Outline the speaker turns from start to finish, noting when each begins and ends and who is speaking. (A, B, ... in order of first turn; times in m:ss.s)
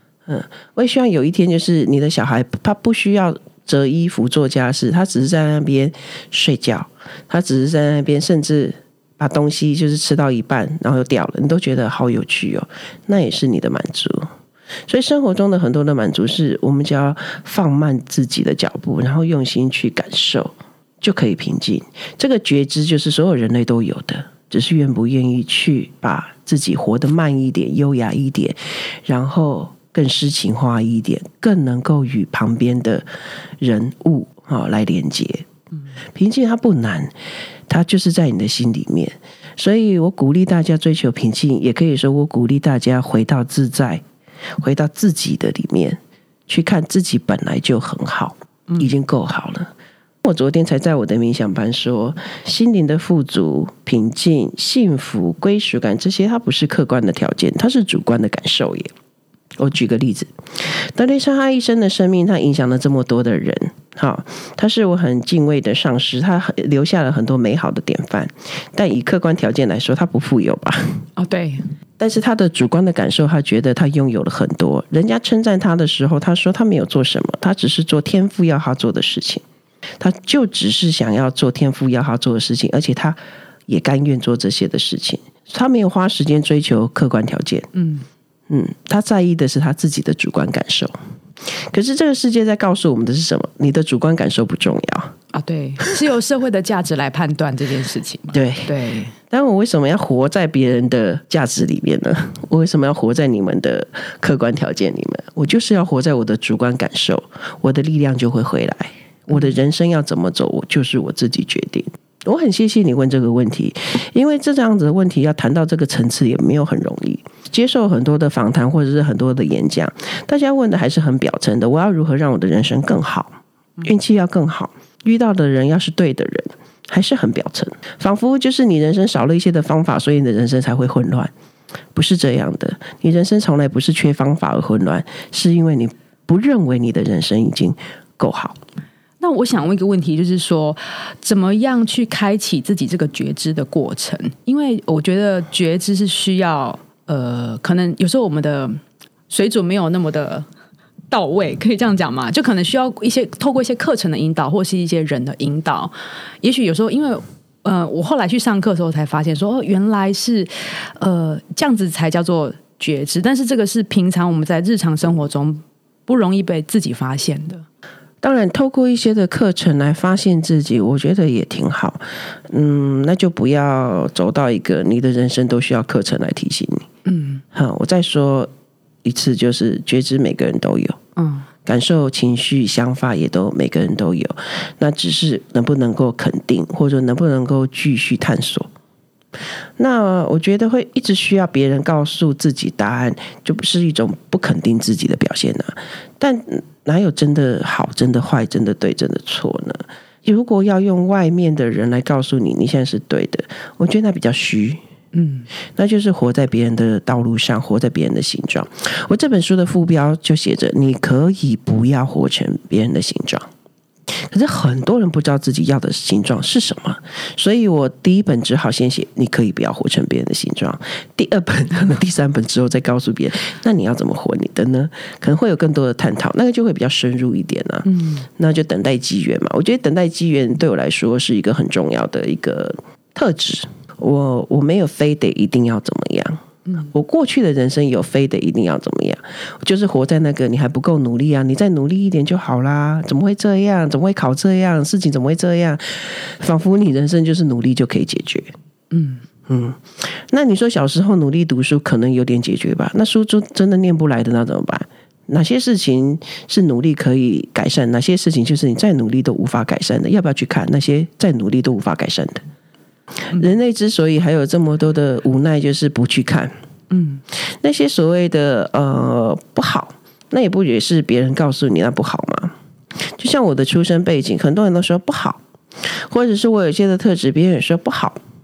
0:00.3-0:14.3 A
0:14.9-0:33.0 A
0:33.6-0:35.5 A
0:36.1-0:37.1 A
0:37.7-0:44.0 A
0:44.6-0:49.7 A
0:50.2-0:58.9 A
0:59.6-1:11.0 A
1:11.2-1:11.6 B
1:12.0-1:19.4 A
1:20.0-1:27.7 A
1:27.7-1:28.0 B
1:28.5-1:30.9 A
1:31.5-1:35.1 A
1:35.3-1:39.1 B
1:38.3-1:38.7 A
1:39.3-2:11.3 A
2:11.9-2:18.6 A
2:19.2-2:30.5 B
2:31.1-2:47.6 B
2:48.2-2:56.9 A
2:57.0-2:57.4 B
2:57.5-2:58.5 A
2:59.0-3:01.0 A
3:01.2-3:01.5 B
3:01.6-3:08.7 A
3:09.8-3:24.8 A
3:25.1-3:25.5 B
3:25.8-3:33.5 A
3:34.2-4:08.5 A
3:47.8-3:48.2 B
4:08.9-4:09.2 B
4:09.5-4:22.4 A
4:23.3-4:26.5 A
4:26.9-4:27.2 B
4:27.6-4:32.5 A
4:33.1-4:38.2 A